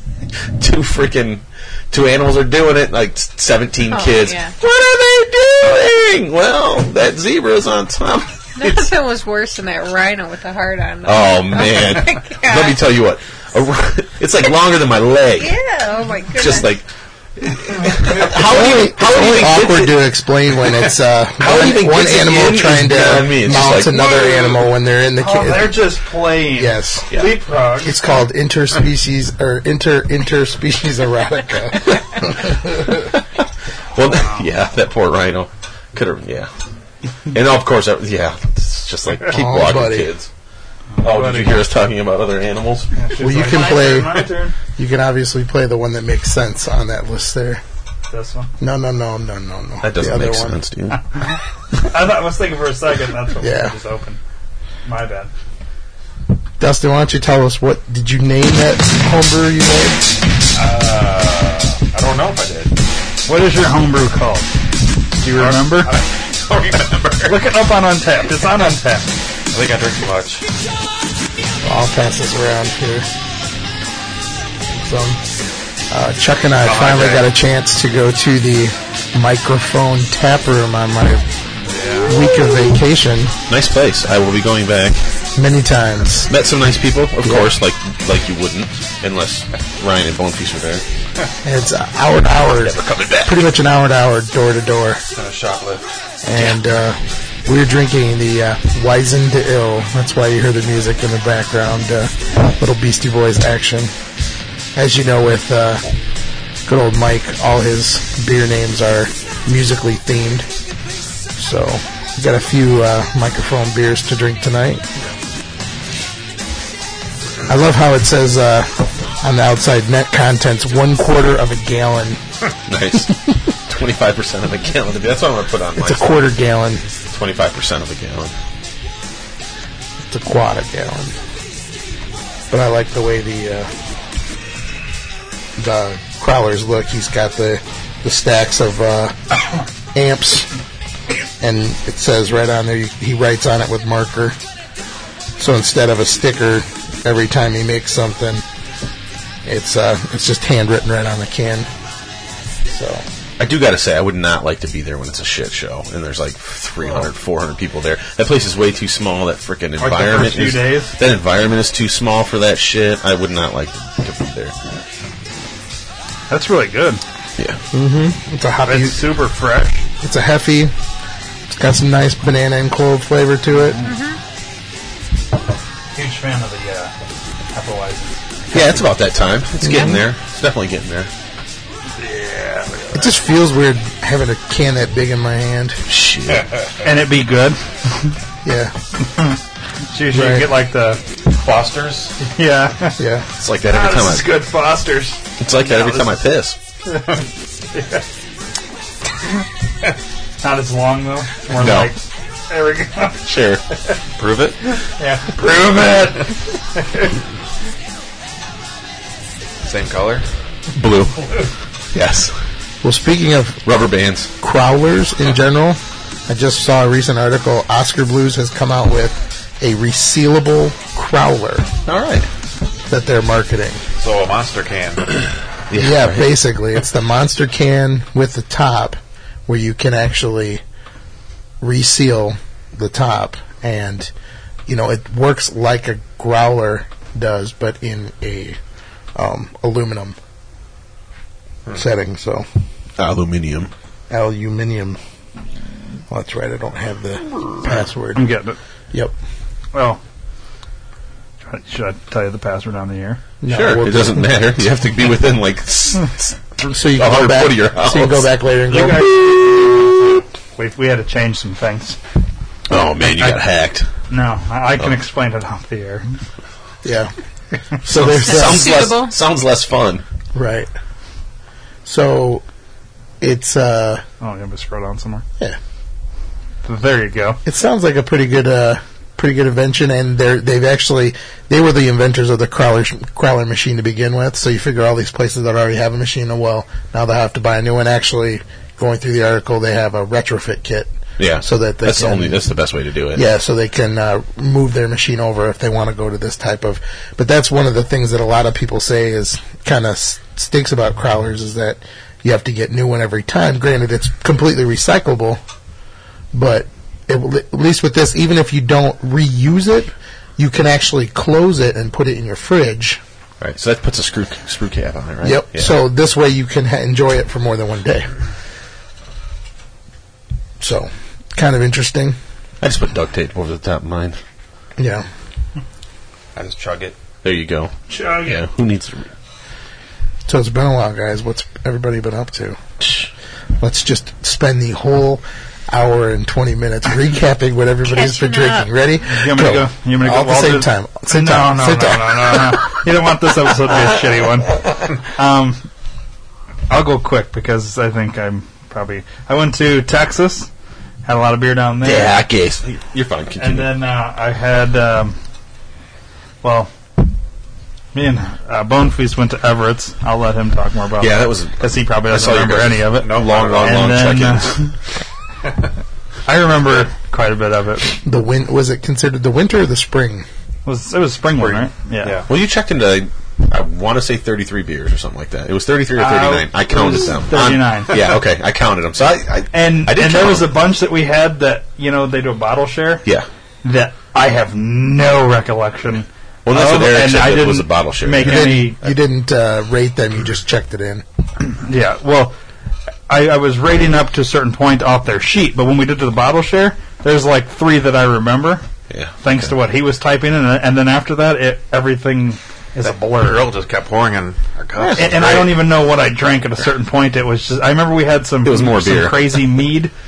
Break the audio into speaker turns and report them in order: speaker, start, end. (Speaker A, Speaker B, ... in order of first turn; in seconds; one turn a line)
Speaker A: 0.6-8.9
Speaker B: 3.9-4.5
Speaker B: 8.6-12.8
Speaker A: 11.1-15.6
Speaker B: 15.4-16.8
Speaker A: 16.3-16.9
Speaker A: 17.4-20.8
Speaker C: 18.2-25.9
Speaker A: 21.4-24.4
Speaker D: 22.3-23.3
Speaker D: 25.2-28.0
Speaker C: 26.5-27.1
Speaker A: 27.1-27.4
Speaker C: 27.8-33.1
Speaker A: 33.9-36.5
Speaker A: 37.3-40.3
Speaker C: 39.3-40.1
Speaker D: 41.0-41.6
Speaker A: 41.0-42.9
Speaker D: 43.0-44.5
Speaker C: 43.2-47.6
Speaker D: 48.1-48.5
Speaker C: 48.6-50.6
Speaker A: 49.8-51.0
Speaker D: 51.1-54.2
Speaker C: 53.4-53.7
Speaker D: 54.9-55.3
Speaker C: 56.6-60.0
Speaker E: 60.5-62.7
Speaker D: 63.3-64.5
Speaker D: 65.2-65.9
Speaker E: 65.3-67.4
Speaker D: 67.2-69.1
Speaker E: 69.5-70.5
Speaker C: 71.6-73.1
Speaker C: 74.8-75.2
Speaker C: 75.9-81.3
Speaker E: 76.8-77.2
Speaker D: 76.8-77.1
Speaker D: 81.7-82.1
Speaker C: 82.1-83.3
Speaker A: 83.5-85.0
Speaker C: 85.4-86.3
Speaker A: 86.3-90.8
Speaker C: 87.2-87.5
Speaker C: 91.4-95.0
Speaker A: 92.6-93.5
Speaker E: 95.2-95.8
Speaker C: 96.2-103.9
Speaker C: 104.8-105.9
Speaker C: 106.7-110.5
Speaker C: 111.4-114.8
Speaker C: 117.5-122.2
Speaker A: 122.7-126.1
Speaker C: 125.8-126.8
Speaker A: 127.1-128.3
Speaker C: 130.0-131.2
Speaker C: 132.5-133.7
Speaker C: 135.6-139.2
Speaker C: 139.9-140.5
Speaker C: 141.4-144.4
Speaker C: 145.4-148.4
Speaker C: 149.4-151.7
Speaker C: 152.7-153.1
Speaker A: 153.4-164.5
Speaker D: 159.8-160.9
Speaker D: 166.3-167.0
Speaker C: 167.7-169.1
Speaker D: 168.7-169.8
Speaker C: 170.0-170.7
Speaker C: 171.5-173.8
Speaker D: 173.5-173.9
Speaker B: 173.8-174.2
Speaker D: 175.9-176.9
Speaker D: 177.5-178.2
Speaker A: 178.5-181.1
Speaker C: 179.6-179.9
Speaker D: 182.0-183.1
Speaker C: 182.9-185.8
Speaker A: 185.9-186.5
Speaker D: 186.8-188.2
Speaker C: 188.4-188.7
Speaker D: 189.9-191.0
Speaker C: 190.1-190.5
Speaker E: 191.3-192.1
Speaker D: 192.2-193.0
Speaker C: 193.0-193.3
Speaker A: 193.4-194.3
Speaker D: 193.7-196.2
Speaker A: 195.4-196.6
Speaker D: 196.9-197.2
Speaker D: 197.7-198.0
Speaker D: 200.4-203.2
Speaker A: 201.5-201.9
Speaker A: 203.3-203.6
Speaker E: 204.2-204.7
Speaker D: 205.0-207.1
Speaker E: 209.6-210.3
Speaker A: 210.7-212.4
Speaker C: 212.8-213.6
Speaker A: 213.7-214.3
Speaker C: 214.4-221.7
Speaker A: 221.9-222.3
Speaker C: 222.9-223.8
Speaker E: 224.0-225.2
Speaker A: 225.7-226.3
Speaker C: 225.8-230.6
Speaker C: 231.6-234.1
Speaker C: 234.7-238.6
Speaker C: 239.2-240.2
Speaker C: 241.7-242.5
Speaker A: 243.0-243.7
Speaker C: 244.1-245.0
Speaker C: 246.1-248.3
Speaker D: 248.2-248.6
Speaker D: 249.7-250.0
Speaker D: 251.4-253.2
Speaker C: 253.4-254.4
Speaker A: 253.5-258.3
Speaker C: 256.7-259.1
Speaker D: 258.7-259.9
Speaker A: 259.5-259.9
Speaker D: 260.6-262.0
Speaker A: 262.7-263.9
Speaker D: 264.1-266.2
Speaker C: 266.8-267.1
Speaker C: 267.8-268.7
Speaker A: 267.9-270.0
Speaker B: 268.2-269.1
Speaker C: 270.4-270.7
Speaker C: 271.9-272.4
Speaker C: 273.2-274.0
Speaker D: 274.2-275.2
Speaker D: 276.6-277.4
Speaker C: 277.4-292.5
Speaker A: 291.2-293.2
Speaker C: 293.1-305.4
Speaker C: 306.3-313.0
Speaker A: 313.4-315.7
Speaker C: 315.2-318.1
Speaker C: 320.6-322.2
Speaker A: 322.6-324.2
Speaker C: 324.8-325.1
Speaker E: 326.4-327.0
Speaker A: 327.2-329.1
Speaker D: 327.9-328.4
Speaker C: 330.3-332.6
Speaker C: 333.6-342.6
Speaker B: 337.9-338.7
Speaker D: 339.1-345.6
Speaker D: 346.7-350.5
Speaker D: 351.1-352.2
Speaker A: 351.8-353.7
Speaker D: 353.4-355.2
Speaker D: 356.4-356.7
Speaker D: 357.9-364.8
Speaker A: 361.0-364.6
Speaker E: 363.0-364.0
Speaker D: 366.3-368.0
Speaker C: 368.0-370.3
Speaker D: 370.6-372.2
Speaker E: 371.4-372.3
Speaker A: 372.3-380.5
Speaker D: 375.9-378.1
Speaker D: 379.5-383.1
Speaker D: 383.6-388.8
Speaker A: 386.4-388.9
Speaker C: 388.2-391.1
Speaker D: 391.6-392.3
Speaker D: 393.1-398.6
Speaker A: 398.9-399.5
Speaker D: 399.2-403.5
Speaker E: 402.8-405.6
Speaker A: 404.8-405.5
Speaker D: 404.9-409.9
Speaker A: 408.4-409.6